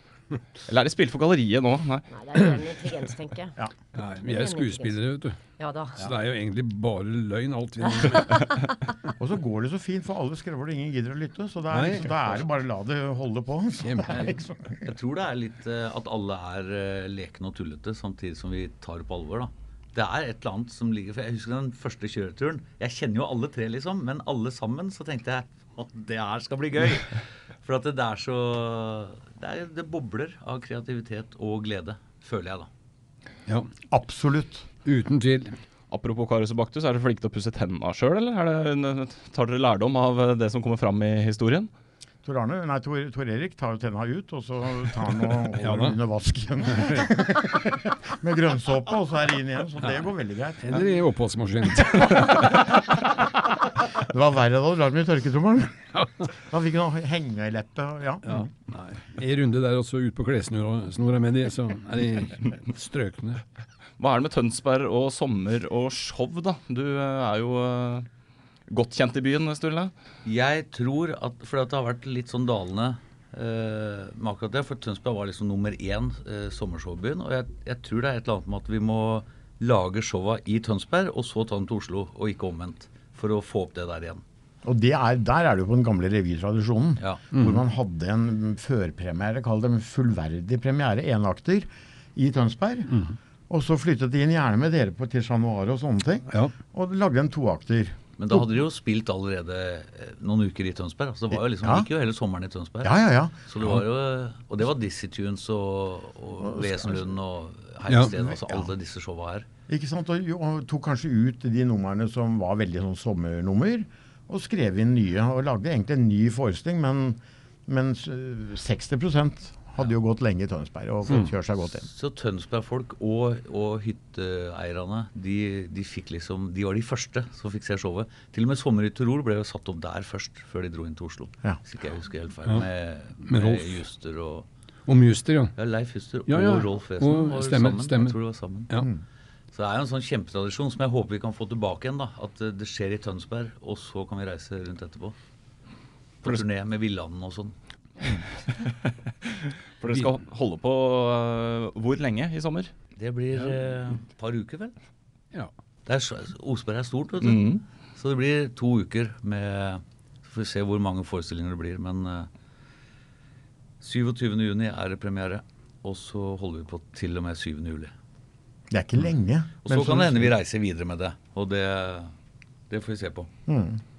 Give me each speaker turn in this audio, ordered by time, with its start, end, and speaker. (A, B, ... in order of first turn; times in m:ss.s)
0:00.7-0:02.1 A
0:02.1-0:03.6 B
0:03.9-0:05.4 C
0:04.2-0:05.0 B
0:05.6-0:06.1 B
0:06.0-0:08.5 C
0:07.9-0:08.4 B
0:09.2-0:14.8 D
0:11.7-0:12.1 C
0:13.8-0:14.1 C
0:14.1-0:32.7 E
0:33.9-0:34.7 D
0:34.8-0:35.5 C
0:35.9-0:41.7 A
0:42.2-0:50.8 D
0:45.6-0:46.0 C
0:46.8-0:47.0 C
0:50.6-0:52.5 C
0:53.9-0:58.5 D
0:58.2-1:03.4 C
1:04.0-1:08.1 A
1:08.7-1:09.9 A
1:10.2-1:24.2 E
1:24.6-1:33.0 D
1:27.0-1:27.3 E
1:27.3-1:27.6 C
1:32.9-1:33.2 C
1:33.5-1:38.0 D
1:38.2-1:49.4 E
1:41.3-1:41.9 D
1:42.8-1:43.8 D
1:46.4-1:47.0 D
1:47.9-1:48.1 C
1:49.7-2:01.9 D
2:01.8-2:14.4 E
2:13.2-2:13.7 C
2:14.9-2:15.5 C
2:15.6-2:18.7 E
2:16.2-2:18.2 C
2:19.5-2:25.2 E
2:26.2-2:27.6 E
2:28.9-2:32.7 A
2:33.0-2:34.7 E
2:35.9-2:42.3 E
2:37.2-2:37.6 A
2:43.8-2:47.9 E
2:48.7-2:50.3 D
2:49.6-2:52.1 E
2:52.7-2:53.3 E
2:53.4-2:53.8 D